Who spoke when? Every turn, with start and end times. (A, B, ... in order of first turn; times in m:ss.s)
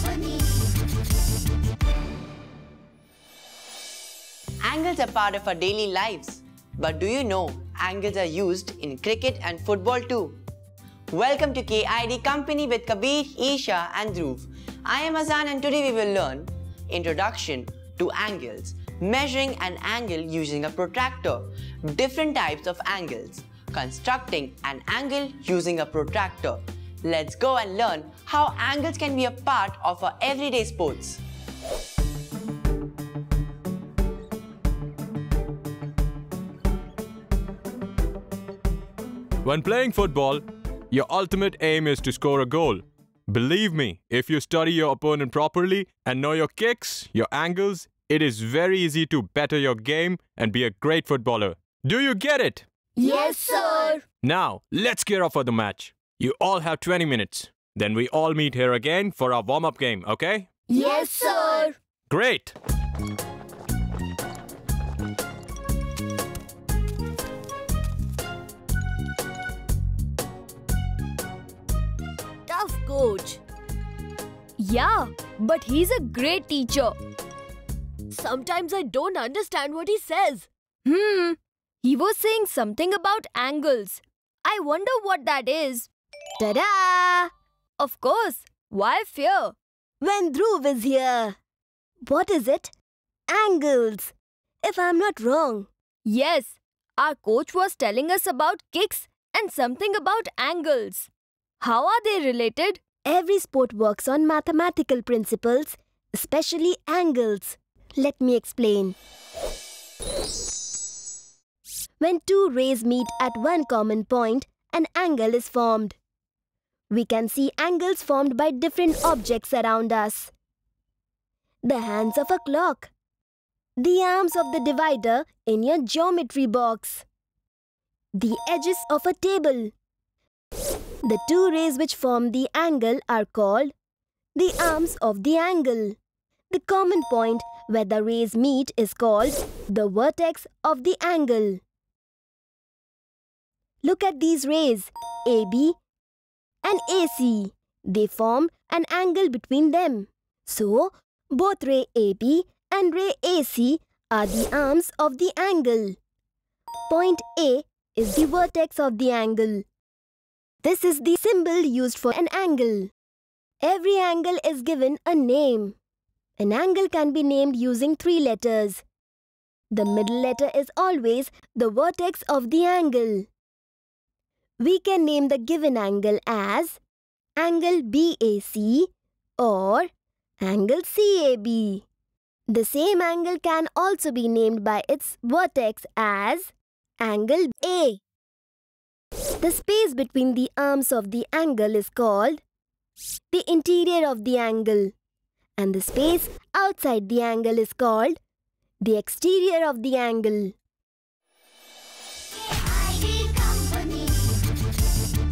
0:04.6-0:10.4 A
0:11.1-0:31.2 A
0:39.4-0:52.6 B
0:53.0-0:54.0 C
0:54.2-1:00.5 B
1:00.7-1:01.8 C
1:02.1-1:02.5 B
1:12.5-1:13.4 D
1:14.6-1:16.9 C
1:18.1-1:20.5 D
1:20.8-1:25.9 C
1:26.4-1:27.3 D
1:27.8-1:29.6 C
1:30.0-1:31.4 D
1:32.0-1:32.7 D
1:33.3-1:35.7 D
1:36.0-1:41.1 C
1:41.6-1:42.8 C
1:43.0-1:49.0 D
1:52.0-1:56.0 D
1:56.9-2:00.3 D
2:01.6-2:02.9 D
2:03.8-2:07.0 D
2:08.1-2:09.7 D
2:11.0-2:13.7 D
2:14.4-2:16.0 D
2:16.5-2:21.6 D
2:23.8-2:25.8 D
2:26.6-2:36.0 D
2:36.9-2:39.6 D
2:40.6-2:42.9 D
2:43.6-2:45.8 D
2:46.4-2:48.8 D
2:49.7-2:53.3 D
2:54.6-2:56.8 D
2:57.4-2:59.9 D
3:00.4-3:01.8 D
3:02.5-3:08.0 D
3:09.4-3:12.4 D
3:13.3-3:14.9 D
3:15.6-3:18.2 D
3:18.8-3:20.5 D